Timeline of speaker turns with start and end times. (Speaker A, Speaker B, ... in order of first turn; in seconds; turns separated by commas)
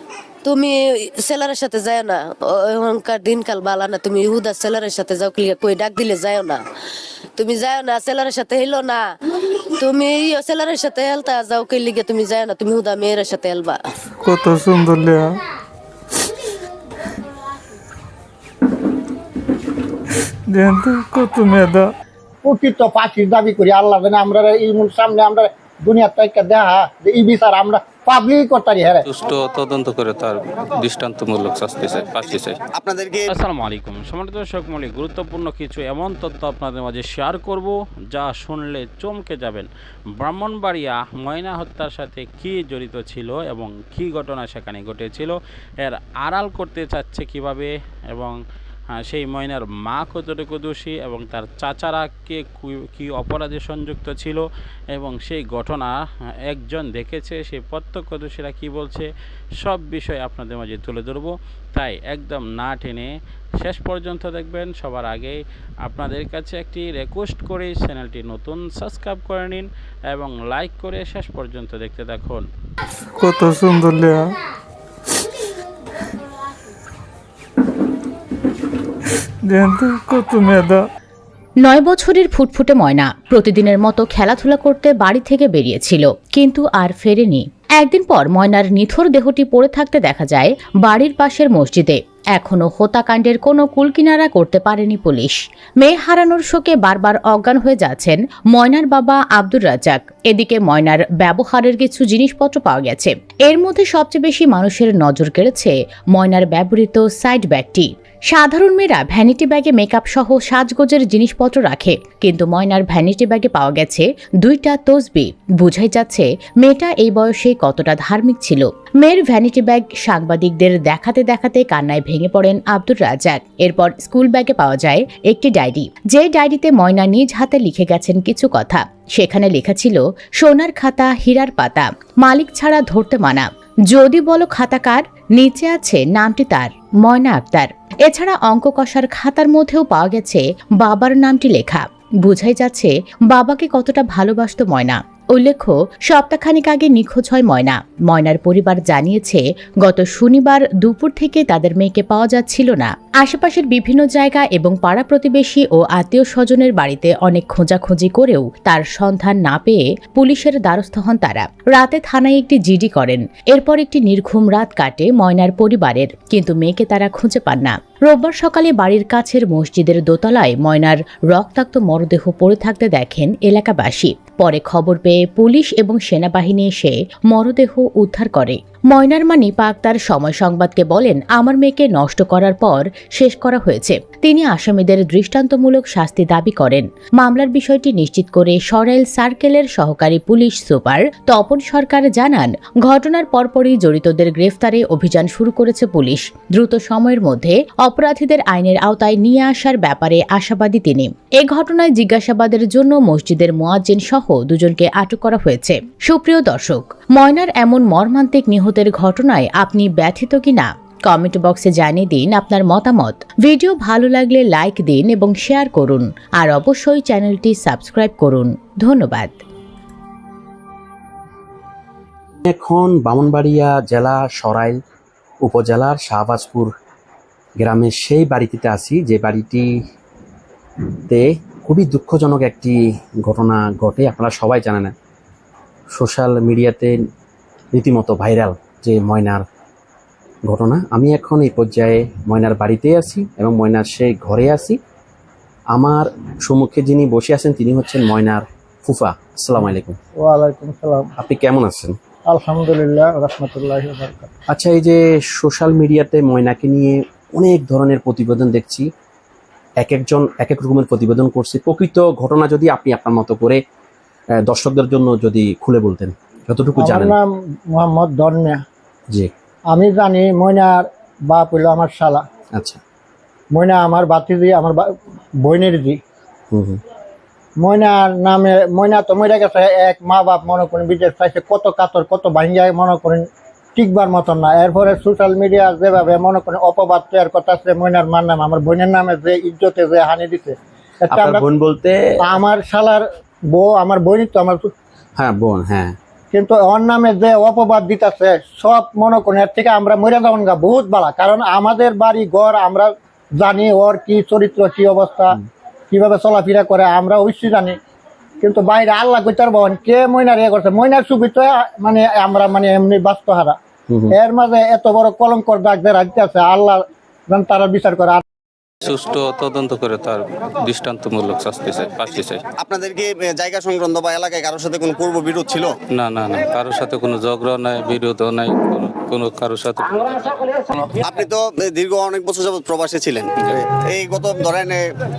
Speaker A: 0.5-6.6, Speaker A: 7.4-9.1, Speaker A: 9.8-13.8, Speaker B: 14.2-15.4, Speaker B: 20.5-21.9, Speaker C: 22.4-29.0, Speaker D: 29.1-32.6, Speaker E: 32.3-33.3, Speaker F: 33.3-39.7, Speaker F: 40.2-48.4, Speaker F: 49.0-59.1, Speaker F: 59.6-63.1, Speaker F: 63.6-72.4, Speaker B: 73.2-74.3, Speaker B: 79.5-80.8, Speaker G: 81.6-219.4, Speaker H: 222.5-224.8, Speaker H: 225.4-226.7, Speaker H: 227.6-229.7, Speaker H: 231.1-234.9, Speaker H: 235.9-237.0, Speaker H: 237.7-239.5, Speaker H: 240.5-244.8, Speaker H: 245.7-250.0, Speaker C: 250.2-251.1, Speaker H: 251.2-252.0, Speaker C: 252.3-254.3, Speaker H: 254.5-258.9, Speaker H: 259.8-263.6, Speaker H: 264.4-267.1, Speaker C: 266.8-268.6, Speaker C: 269.7-272.2, Speaker C: 273.5-276.0, Speaker H: 276.5-276.8, Speaker C: 277.6-291.5, Speaker H: 291.1-292.2, Speaker C: 292.2-294.7, Speaker H: 295.2-296.0, Speaker C: 296.3-305.4, Speaker C: 305.9-307.8, Speaker C: 308.4-313.6, Speaker H: 313.9-314.1, Speaker C: 314.1-318.2, Speaker D: 318.8-322.4, Speaker E: 322.6-325.7, Speaker D: 325.9-330.4, Speaker E: 331.0-334.8